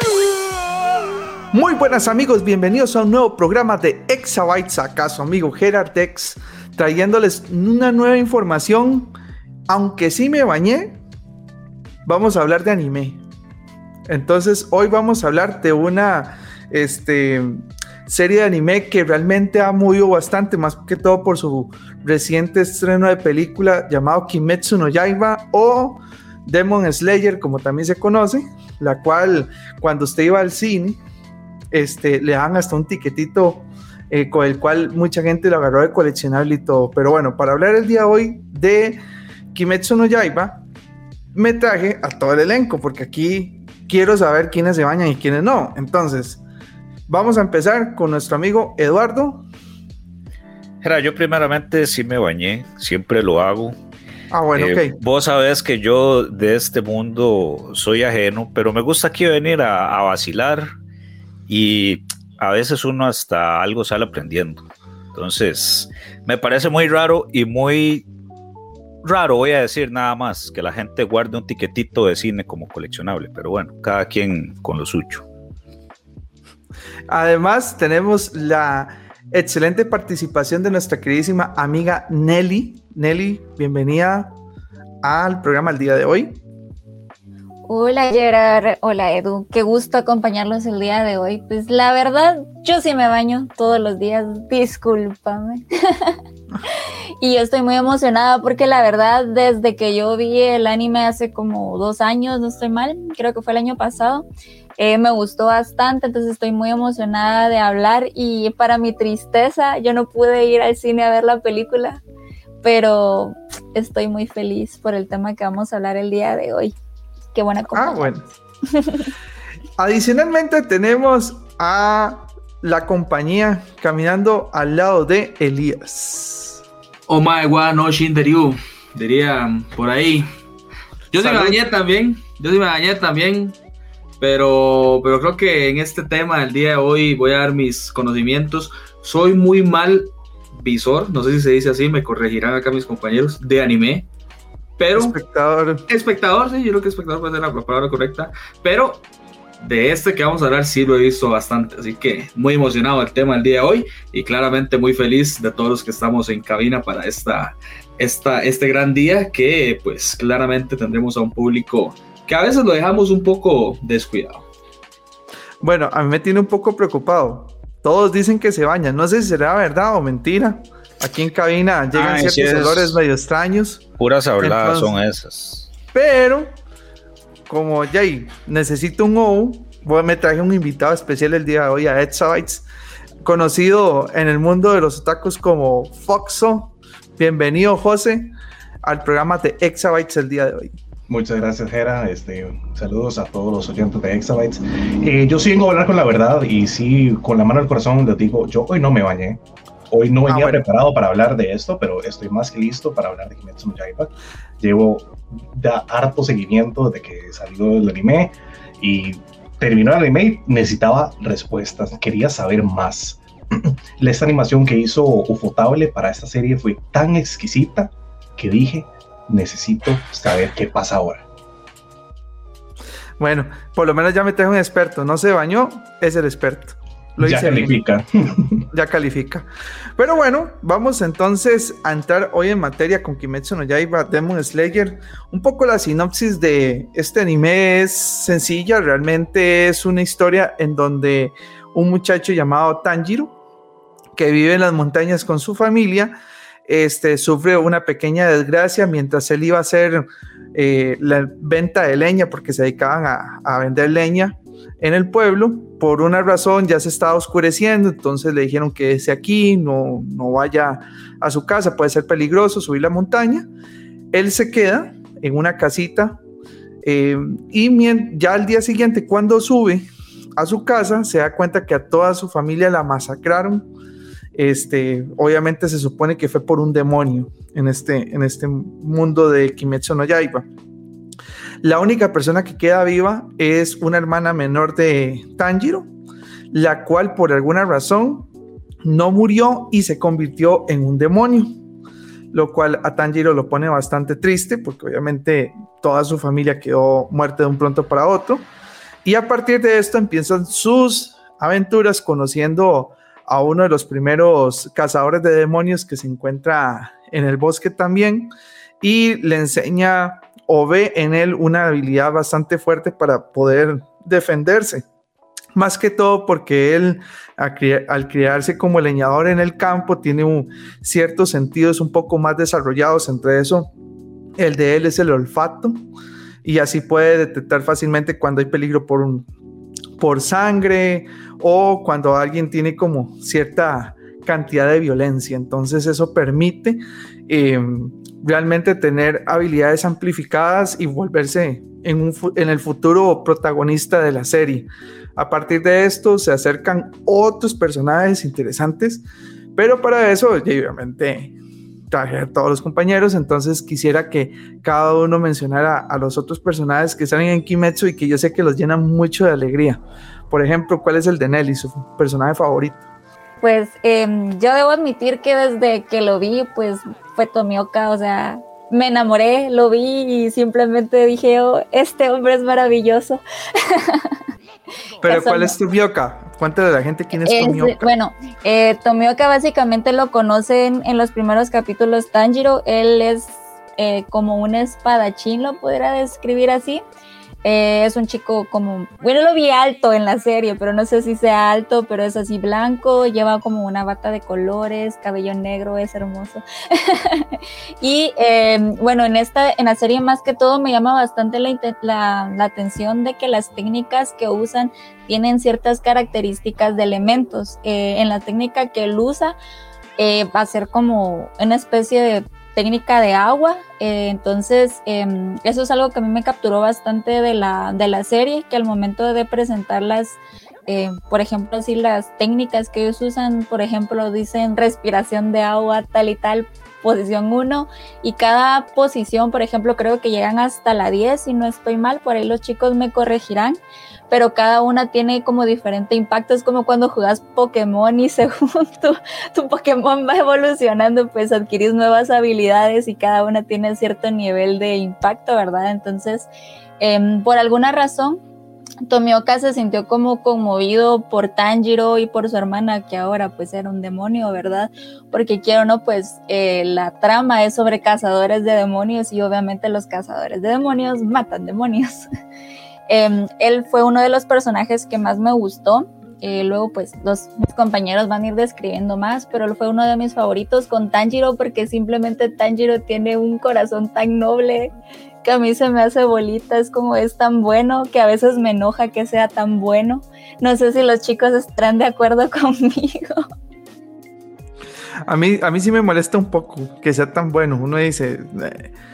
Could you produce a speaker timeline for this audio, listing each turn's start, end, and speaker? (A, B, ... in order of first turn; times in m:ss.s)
0:01.5-0:09.1 A
0:09.7-0:11.0 A
0:12.0-0:13.2 A
0:14.1-0:31.0 A
0:31.7-0:39.0 A
0:39.5-0:40.6 A
0:41.3-0:46.4 A
0:47.1-0:49.4 A
0:50.8-0:53.8 B
0:54.3-0:55.0 A
0:54.6-1:00.7 B
1:01.5-1:08.0 B
1:09.0-1:15.2 B
1:17.1-1:24.3 A
1:25.0-1:26.4 A
1:27.7-1:36.2 C
1:37.2-1:44.2 C
1:44.8-1:52.0 C
1:52.6-1:56.8 C
1:57.3-1:58.1 C
1:57.7-1:58.3 A
1:58.7-1:59.1 C
1:59.8-2:06.6 A
2:07.1-2:10.3 D
2:11.1-2:13.6 D
2:11.2-2:11.6 A
2:14.2-2:24.1 D
2:24.8-2:25.2 D
2:24.9-2:25.9 A
2:25.9-2:29.0 D
2:29.6-2:44.4 D
2:45.6-2:53.9 A
2:51.9-2:53.0 B
2:54.0-2:55.7 B
2:54.4-2:55.0 A
2:55.9-2:56.5 A
2:57.5-3:02.6 A
3:03.2-3:10.8 A
3:11.1-3:41.2 E
3:20.3-3:20.6 A
3:43.2-3:47.8 A
3:47.2-3:48.7 E
3:48.7-4:03.3 A
4:04.1-4:06.2 A
4:06.7-4:23.5 A
4:24.1-4:26.2 A
4:26.8-4:33.7 A
4:34.3-4:40.5 A
4:41.6-4:45.9 A
4:46.5-4:48.3 A
4:48.8-4:51.6 A
4:52.3-4:58.5 A
4:59.0-5:14.8 A
5:15.6-5:23.7 A
5:24.4-5:25.8 A
5:26.4-5:29.3 A
5:30.0-5:49.0 A
5:49.6-5:51.3 A
5:51.9-6:02.8 A
6:03.4-6:14.1 C
6:15.0-6:17.9 A
6:15.1-6:15.5 C
6:17.2-6:26.8 C
6:27.4-6:49.4 C
6:50.0-7:13.6 C
7:14.1-7:26.3 C
7:26.8-7:28.2 C
7:28.8-7:42.1 C
7:42.9-7:54.7 C
7:55.2-8:03.2 C
8:05.1-8:08.7 A